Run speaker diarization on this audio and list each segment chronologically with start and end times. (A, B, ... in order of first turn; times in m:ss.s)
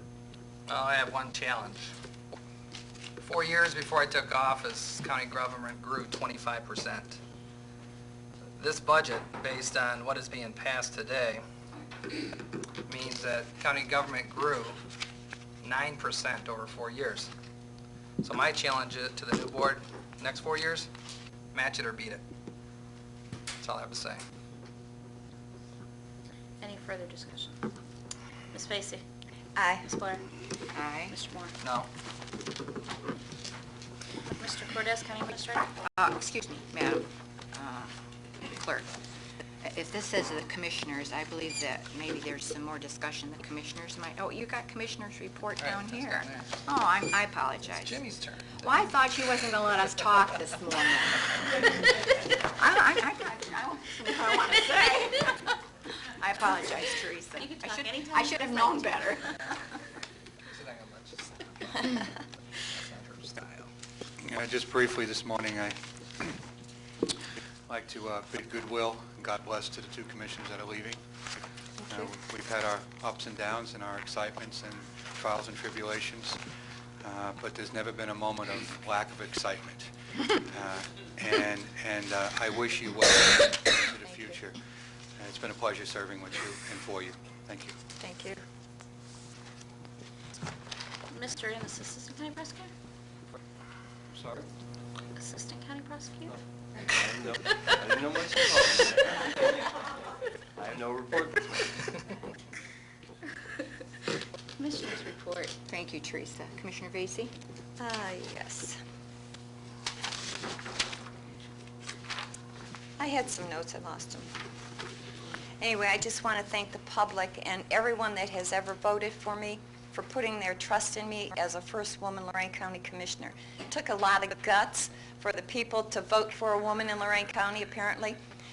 0:00.7-0:01.9 A
0:03.2-0:07.2 A
0:08.6-0:11.4 A
0:12.8-0:14.8 A
0:15.6-0:17.3 A
0:18.2-0:20.9 A
0:21.5-0:22.2 A
0:23.6-0:24.2 A
0:26.6-0:27.6 B
0:28.5-0:29.0 B
0:29.6-0:29.9 C
0:29.8-0:30.2 B
0:30.7-0:31.2 D
0:31.1-0:31.5 B
0:31.6-0:31.9 A
0:34.3-0:35.7 B
0:35.9-0:38.9 D
0:39.6-0:48.0 D
0:45.6-0:46.6 A
0:47.7-0:48.7 A
0:48.6-0:52.0 D
0:52.6-0:55.6 D
0:56.2-0:59.4 D
0:57.4-0:59.2 B
1:00.4-1:03.7 A
1:04.2-1:06.3 E
1:07.7-1:11.0 E
1:11.8-1:16.4 E
1:17.0-1:24.6 E
1:25.2-1:27.8 E
1:28.0-1:28.4 C
1:31.1-1:32.7 B
1:35.1-1:36.3 B
1:36.9-1:39.4 F
1:40.6-1:41.8 F
1:44.6-1:45.5 B
1:45.6-1:47.3 D
1:47.8-1:48.8 C
1:53.0-1:54.3 C
1:55.6-2:08.2 C